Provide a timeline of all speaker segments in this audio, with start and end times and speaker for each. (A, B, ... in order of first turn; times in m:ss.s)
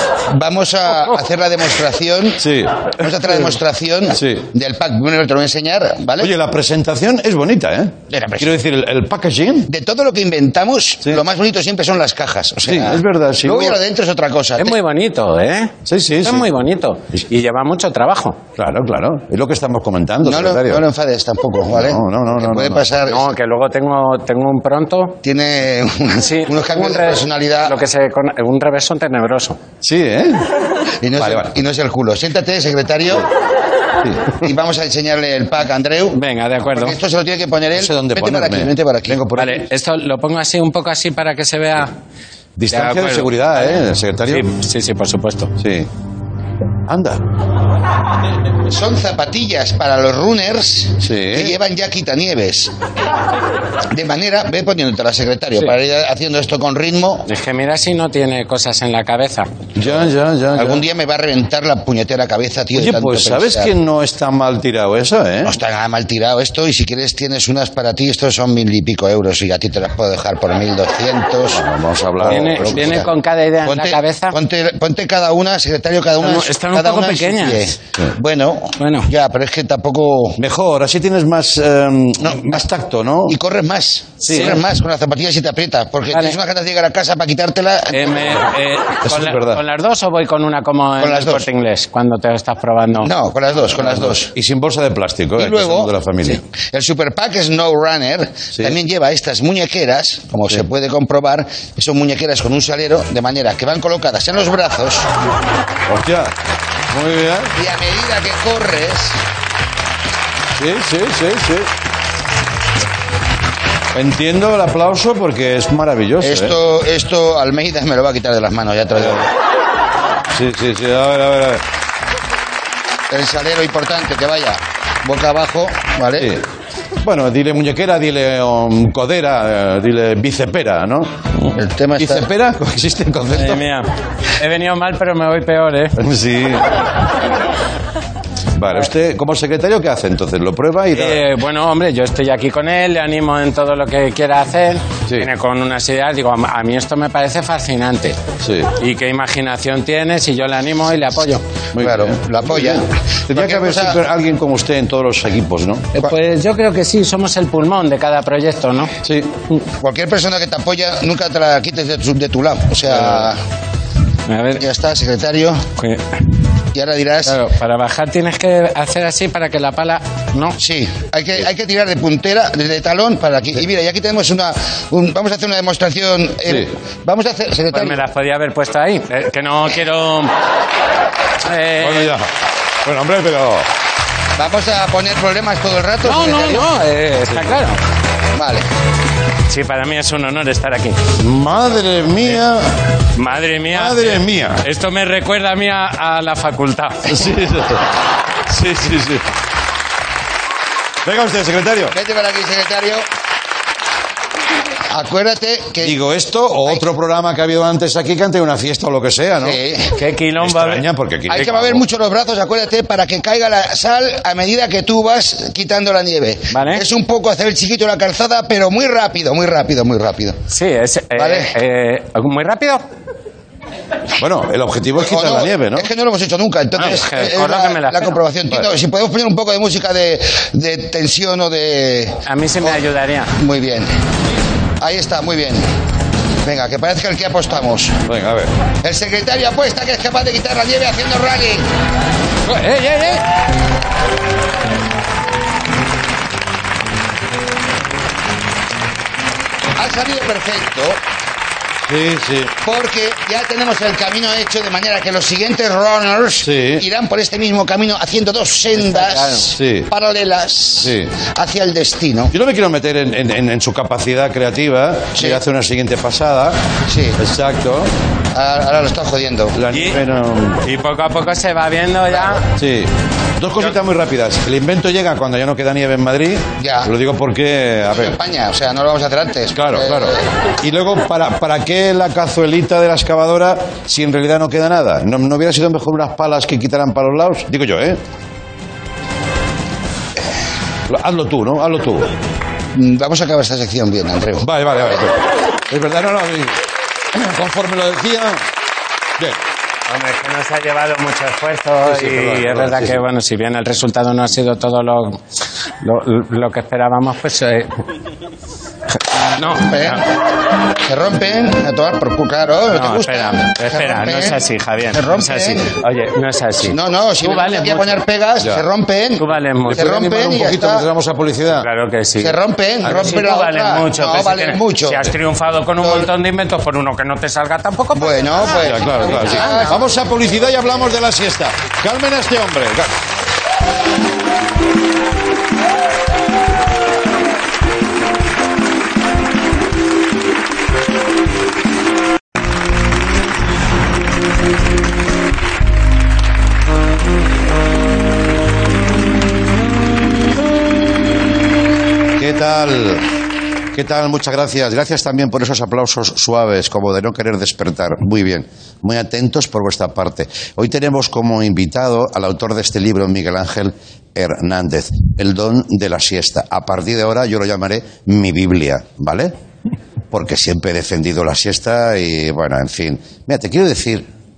0:00.2-0:06.3 A
0:02.4-0:03.4 B
0:04.1-0:04.5 B
0:06.2-0:09.7 B
0:08.1-0:08.5 A
0:09.7-0:14.8 A
0:12.6-0:13.8 B
0:14.6-0:18.4 C
0:15.9-0:16.5 B
0:18.6-0:20.8 B
0:20.2-0:23.3 A
0:21.7-0:22.8 B
0:23.1-0:25.2 C
0:25.2-0:27.7 A
0:26.2-0:29.6 C
0:29.8-0:30.5 B
0:31.0-0:33.3 A
0:31.2-0:31.5 B
0:34.0-0:34.4 B
0:34.4-0:36.2 A
0:36.1-0:37.0 C
0:36.7-0:39.2 A
0:37.7-0:39.6 B
0:39.4-0:41.9 C
0:42.6-0:44.5 B
0:42.7-0:45.5 C
0:45.6-0:45.9 B
0:46.9-0:47.2 B
0:48.7-0:52.7 A
0:51.0-0:51.6 B
0:53.9-0:57.2 A
0:57.3-0:59.5 C
0:59.8-1:00.8 B
1:00.6-1:03.7 A
1:02.7-1:05.6 B
1:05.5-1:11.6 A
1:11.5-1:13.1 B
1:12.2-1:13.1 A
1:12.3-1:14.4 C
1:13.6-1:20.4 A
1:16.2-1:17.7 C
1:18.8-1:19.1 C
1:20.4-1:23.4 B
1:23.3-1:28.4 A
1:24.2-1:24.6 B
1:26.1-1:26.4 C
1:27.9-1:33.1 C
1:29.0-1:29.6 B
1:31.0-1:31.4 A
1:33.0-1:34.3 A
1:33.7-1:36.4 B
1:35.4-1:35.9 A
1:36.7-1:45.1 A
1:45.9-1:46.4 B
1:46.9-1:47.5 B
1:47.6-1:49.2 A
1:50.6-1:51.7 B
1:53.9-1:56.6 B
1:56.2-1:59.3 A
2:00.3-2:01.6 B
2:03.1-2:06.3 A
2:06.2-2:06.4 B
2:07.0-2:11.2 B
2:11.5-2:12.3 A
2:12.0-2:13.6 B
2:13.3-2:16.0 C
2:16.0-2:16.7 B
2:18.6-2:21.3 B
2:20.9-2:28.2 C
2:28.4-2:28.7 B
2:28.8-2:31.4 C
2:31.7-2:36.0 B
2:31.8-2:34.0 A
2:36.0-2:38.9 C
2:39.0-2:39.3 B
2:39.8-2:43.4 A
2:44.3-2:44.6 C
2:44.6-2:45.6 A
2:45.8-2:46.2 C
2:46.7-2:47.4 A
2:47.2-2:50.6 C
2:50.6-2:58.0 A
2:56.5-2:56.7 B
2:57.7-3:00.3 C
3:01.4-3:02.2 C
3:01.8-3:02.3 B
3:02.8-3:03.7 B
3:04.4-3:06.7 A
3:06.0-3:07.8 C
3:08.3-3:08.7 A
3:09.5-3:11.1 C
3:11.2-3:12.7 B
3:13.2-3:17.2 C
3:13.7-3:14.6 B
3:17.1-3:18.0 B
3:18.5-3:19.3 B
3:21.0-3:22.0 B
3:21.9-3:23.1 A
3:24.9-3:26.0 A
3:25.8-3:29.6 B
3:29.4-3:30.0 A
3:30.0-3:30.8 C
3:30.4-3:31.8 B
3:31.3-3:40.4 A
3:36.5-3:36.8 C
3:40.5-3:42.8 C
3:41.2-3:41.5 A
3:44.2-3:45.9 B
3:45.0-3:52.8 A
3:46.8-3:48.2 C
3:52.2-3:53.3 C
3:53.4-3:53.9 A
3:54.8-3:55.7 A
3:56.4-3:58.0 A
3:58.0-3:58.5 B
3:58.8-4:01.7 A
4:02.4-4:03.2 C
4:09.8-4:11.0 A
4:11.9-4:12.6 B
4:12.6-4:22.3 A
4:16.4-4:16.8 B
4:18.8-4:19.5 C
4:19.5-4:19.9 B
4:20.8-4:21.1 B
4:22.3-4:26.6 B
4:25.2-4:25.4 A
4:26.9-4:27.2 A
4:27.2-4:27.9 B
4:28.3-4:29.6 A
4:29.6-4:30.6 B
4:29.7-4:30.0 C
4:30.6-4:32.4 C
4:32.5-4:38.2 B
4:36.6-4:36.9 A
4:37.9-4:40.2 A
4:39.5-4:48.0 B
4:50.9-4:52.1 B
4:52.8-4:54.5 A
4:54.4-4:56.6 B
4:57.1-4:58.4 B
4:59.9-5:05.2 C
5:01.9-5:03.0 B
5:05.8-5:07.8 C
5:09.4-5:10.0 C
5:09.5-5:10.0 A
5:10.8-5:14.4 A
5:12.7-5:18.0 C
5:14.9-5:15.7 A
5:16.7-5:20.9 A
5:18.4-5:18.7 B
5:19.2-5:20.4 C
5:19.7-5:21.7 B
5:21.5-5:29.7 C
5:22.2-5:25.1 A
5:25.8-5:26.1 A
5:28.0-5:29.9 A
5:28.5-5:33.0 B
5:52.2-5:53.1 B
5:53.7-6:09.3 B
6:10.1-6:14.1 B